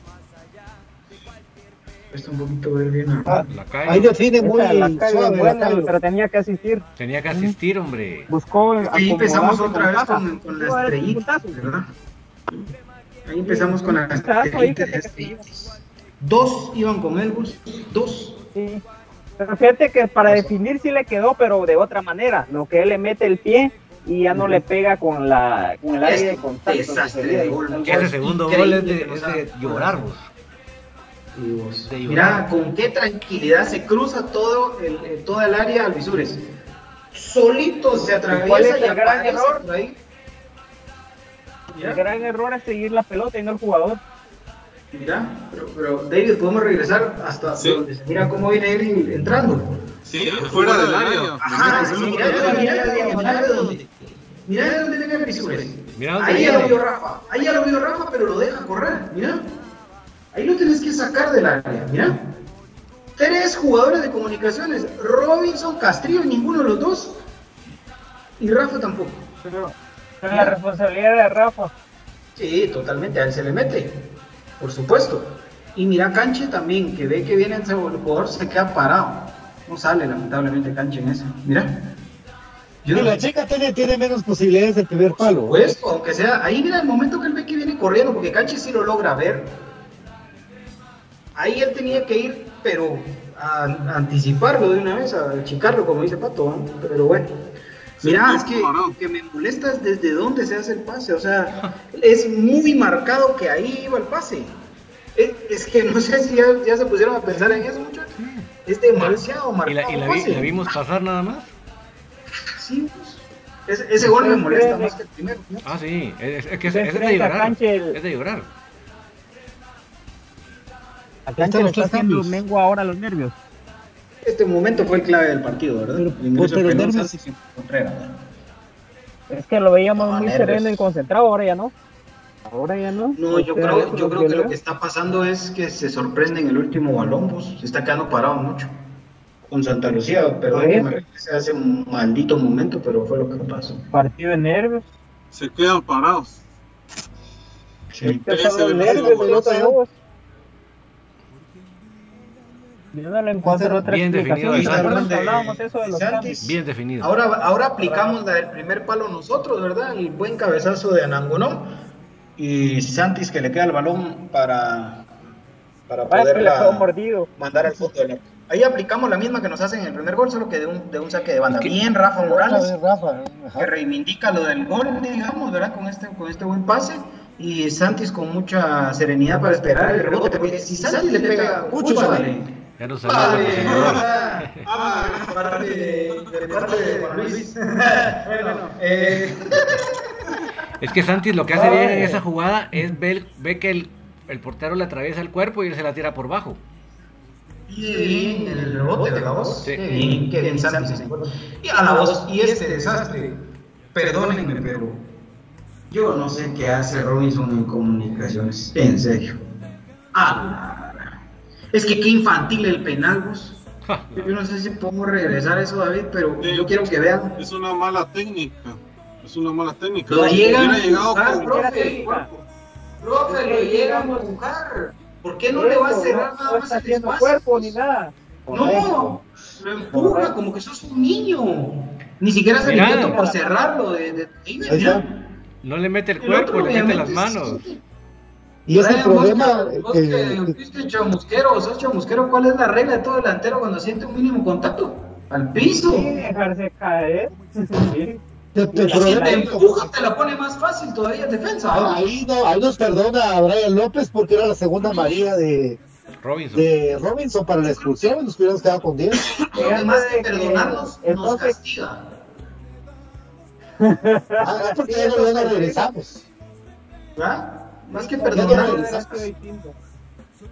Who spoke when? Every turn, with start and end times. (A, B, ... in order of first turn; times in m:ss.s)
0:02.1-0:03.4 A
0:03.2-0:05.9 B
0:03.5-0:04.2 C
0:04.4-0:07.5 D
0:07.0-0:08.3 C
0:08.3-0:11.6 D
0:08.9-0:11.9 A
0:13.2-0:18.4 A
0:13.4-0:15.4 D
0:18.5-0:18.8 D
0:19.4-0:28.0 D
0:20.2-0:20.5 A
0:24.3-0:24.6 A
0:26.0-0:30.0 A
0:27.9-0:30.3 C
0:31.3-0:36.4 A
0:31.9-0:32.5 C
0:37.1-0:40.0 A
0:38.3-0:39.6 D
0:41.7-0:42.0 A
0:41.7-0:44.0 D
0:44.9-0:59.4 A
0:47.6-0:47.8 E
0:50.0-0:52.9 E
0:51.6-0:53.8 D
0:55.4-0:56.8 C
0:56.3-0:56.6 D
1:00.3-1:02.3 A
1:03.2-1:07.2 A
1:08.4-1:09.3 A
1:09.4-1:11.7 D
1:10.3-1:10.6 A
1:12.4-1:14.0 A
1:14.6-1:21.9 A
1:22.8-1:23.2 A
1:22.9-1:25.6 B
1:25.1-1:29.6 A
1:31.4-1:37.3 A
1:38.0-1:39.0 E
1:38.0-1:44.6 A
1:45.2-1:50.8 A
1:48.2-1:51.5 C
1:52.6-1:55.7 A
1:54.0-1:54.9 D
1:55.6-1:58.5 C
1:56.6-1:58.0 D
2:01.3-2:03.3 D
2:01.4-2:02.4 B
2:04.2-2:08.2 A
2:05.9-2:07.2 B
2:09.3-2:11.7 D
2:09.9-2:10.8 A
2:12.5-2:14.5 D
2:13.2-2:18.7 A
2:19.5-2:24.0 A
2:20.5-2:21.0 D
2:23.9-2:24.8 D
2:25.3-2:26.4 E
2:27.9-2:28.2 A
2:28.0-2:29.5 E
2:28.0-2:29.9 D
2:28.8-2:29.8 B
2:32.9-2:36.4 D
2:33.4-2:33.8 B
2:33.8-2:35.1 C
2:34.5-2:41.7 A
2:36.4-2:37.1 C
2:37.8-2:38.2 D
2:42.4-2:45.0 A
2:45.9-2:52.7 A
2:46.1-2:47.3 D
2:51.5-2:51.7 C
2:52.2-2:53.7 B
2:53.6-3:02.5 A
2:59.3-3:02.3 B
3:01.8-3:02.2 D
3:02.8-3:04.6 C
3:03.0-3:10.1 A
3:03.2-3:04.0 E
3:04.6-3:06.9 E
3:10.8-3:16.6 C
3:11.5-3:12.2 A
3:11.5-3:11.9 B
3:11.7-3:12.0 D
3:17.7-3:23.4 A
3:17.7-3:21.2 B
3:21.9-3:23.1 D
3:23.9-3:25.0 A
3:25.9-3:29.4 A
3:30.1-3:31.2 A
3:31.7-3:33.6 A
3:33.8-3:34.3 C
3:34.2-3:37.4 A
3:36.4-3:41.7 E
3:40.1-3:42.3 A
3:41.3-3:42.3 D
3:43.0-3:47.8 A
3:43.3-3:44.3 D
3:45.5-3:49.2 D
3:48.5-3:55.2 A
3:49.9-3:50.3 D
3:52.6-3:53.2 C
3:53.1-3:53.5 D
3:54.7-3:55.0 B
3:55.6-3:57.6 C
3:56.2-3:57.8 A
3:58.6-4:00.6 B
3:58.7-4:06.1 A
4:05.9-4:08.2 D
4:08.5-4:09.9 B
4:08.7-4:09.4 D
4:08.8-4:12.0 A
4:11.7-4:15.8 B
4:14.8-4:15.2 A
4:16.1-4:16.7 C
4:16.5-4:19.3 B
4:17.6-4:18.2 A
4:19.5-4:22.0 A
4:19.5-4:21.6 D
4:23.8-4:25.6 D
4:24.4-4:26.2 B
4:24.9-4:25.7 A
4:27.2-4:28.8 A
4:27.9-4:29.8 D
4:28.3-4:29.3 B